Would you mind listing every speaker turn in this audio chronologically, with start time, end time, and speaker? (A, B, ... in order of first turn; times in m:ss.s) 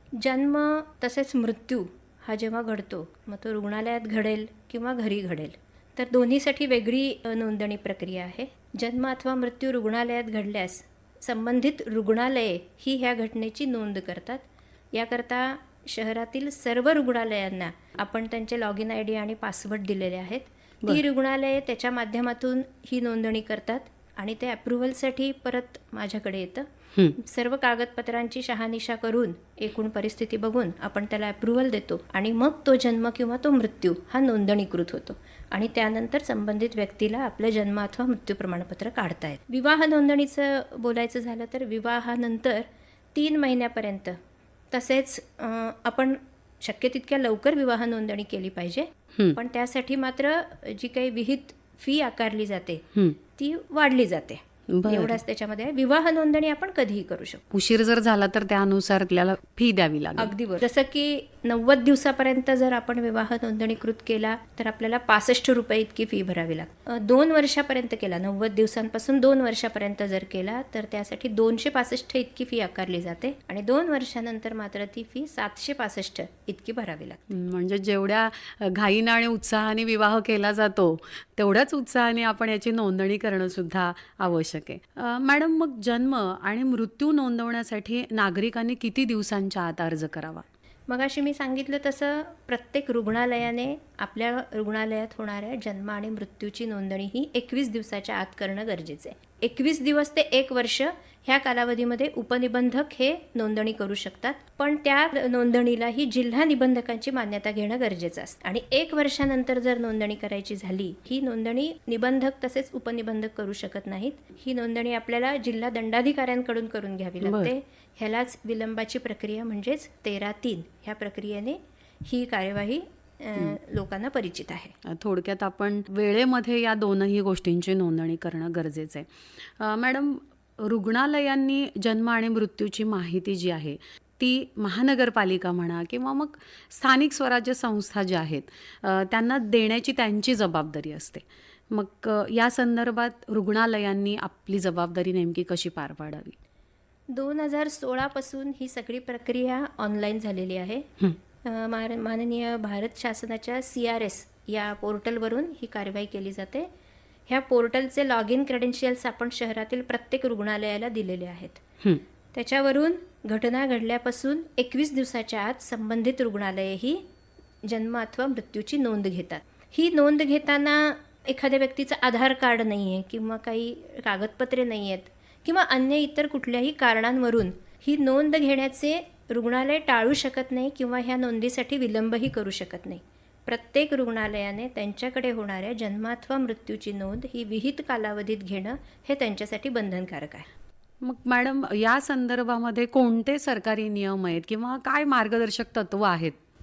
0:00.2-0:44.2 A
0:44.7-0:57.4 A
0:54.7-0:55.2 B
0:57.5-1:00.3 B
1:00.2-1:17.2 A
1:17.3-1:30.5 B
1:30.9-2:04.8 A
1:57.2-1:57.5 B
2:04.8-2:26.4 B
2:27.1-2:30.9 A
2:31.4-2:36.7 A
2:37.3-2:41.6 A
2:42.3-2:47.0 A
2:47.6-3:10.5 A
3:11.0-3:16.4 B